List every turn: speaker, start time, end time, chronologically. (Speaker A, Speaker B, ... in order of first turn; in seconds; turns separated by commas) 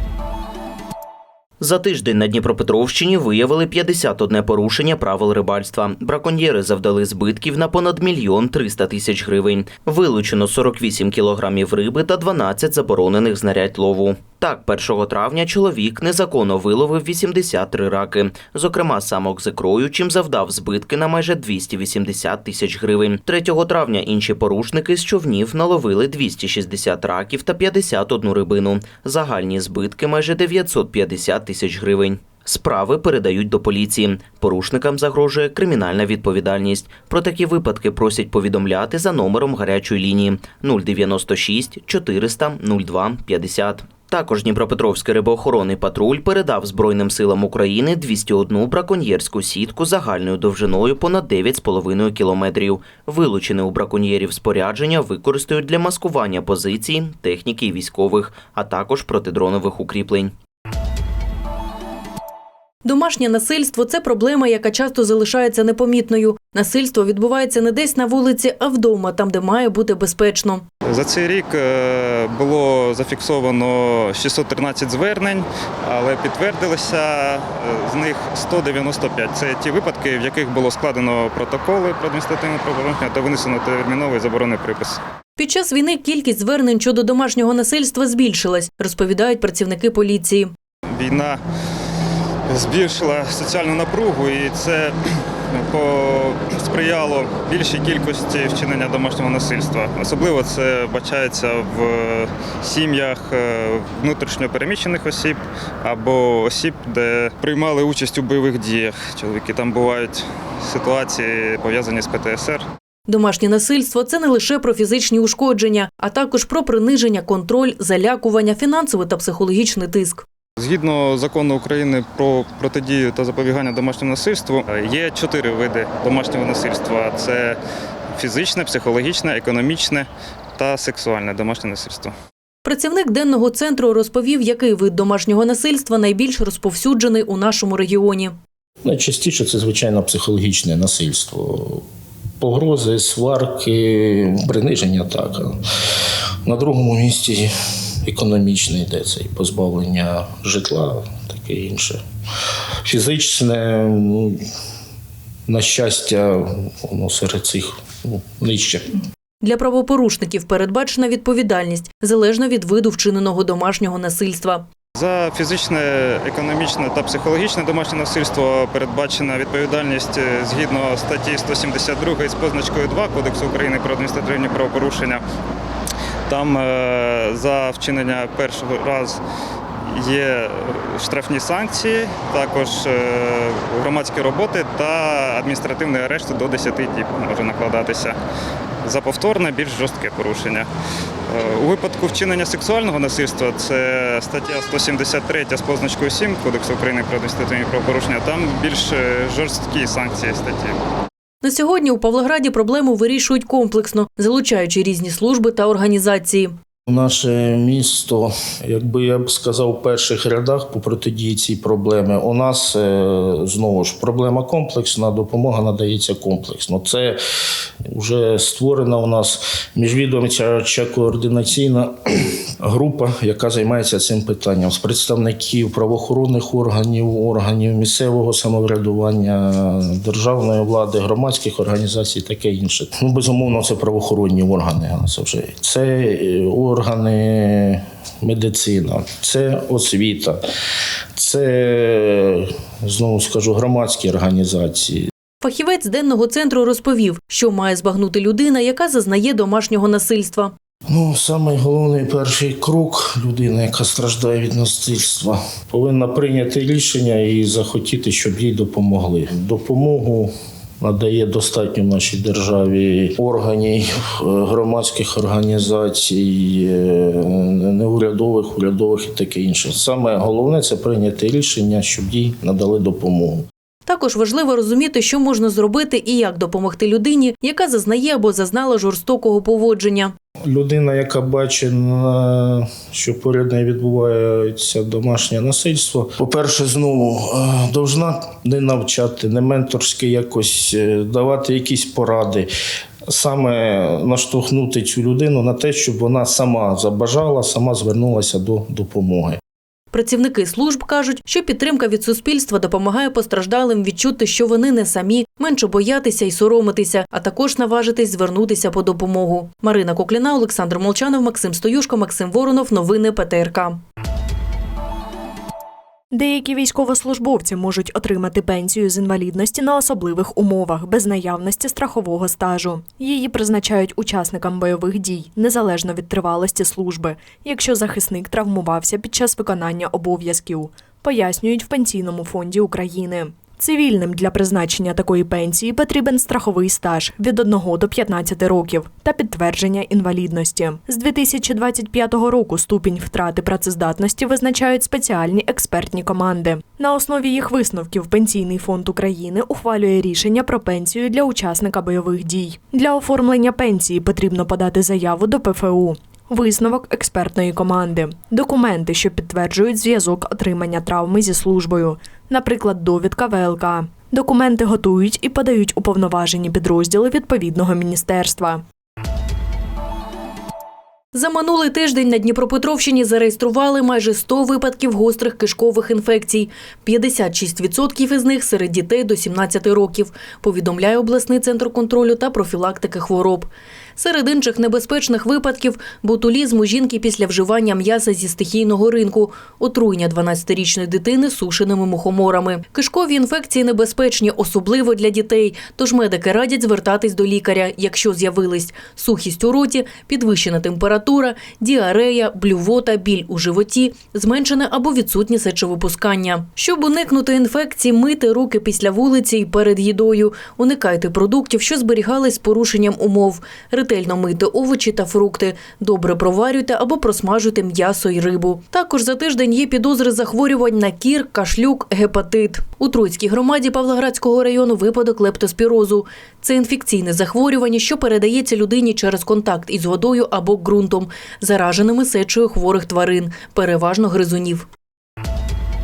Speaker A: 1.6-60.3, Speaker B: 62.8-70.7, Speaker C: 70.9-85.0, Speaker B: 85.4-90.5, Speaker C: 90.9-91.4, Speaker C: 92.5-112.7, Speaker B: 113.1-120.2, Speaker C: 120.6-127.6, Speaker C: 128.2-132.1, Speaker B: 132.6-138.3, Speaker D: 138.8-141.8, Speaker D: 142.4-145.5, Speaker D: 146.4-147.5, Speaker D: 148.1-152.0, Speaker D: 152.8-154.4, Speaker D: 155.5-158.9, Speaker B: 159.4-164.7, Speaker C: 165.0-175.2, Speaker C: 176.3-179.2, Speaker C: 179.9-188.2, Speaker C: 188.8-190.7, Speaker C: 191.3-200.8, Speaker B: 201.4-206.5, Speaker D: 206.9-217.2, Speaker D: 217.9-221.9, Speaker D: 222.6-240.4, Speaker D: 241.2-245.1, Speaker B: 245.4-250.5, Speaker D: 250.9-273.5, Speaker B: 273.9-280.1, Speaker D: 280.4-292.5, Speaker D: 293.1-299.4, Speaker B: 299.9-313.8, Speaker E: 316.1-368.6, Speaker B: 371.1-434.7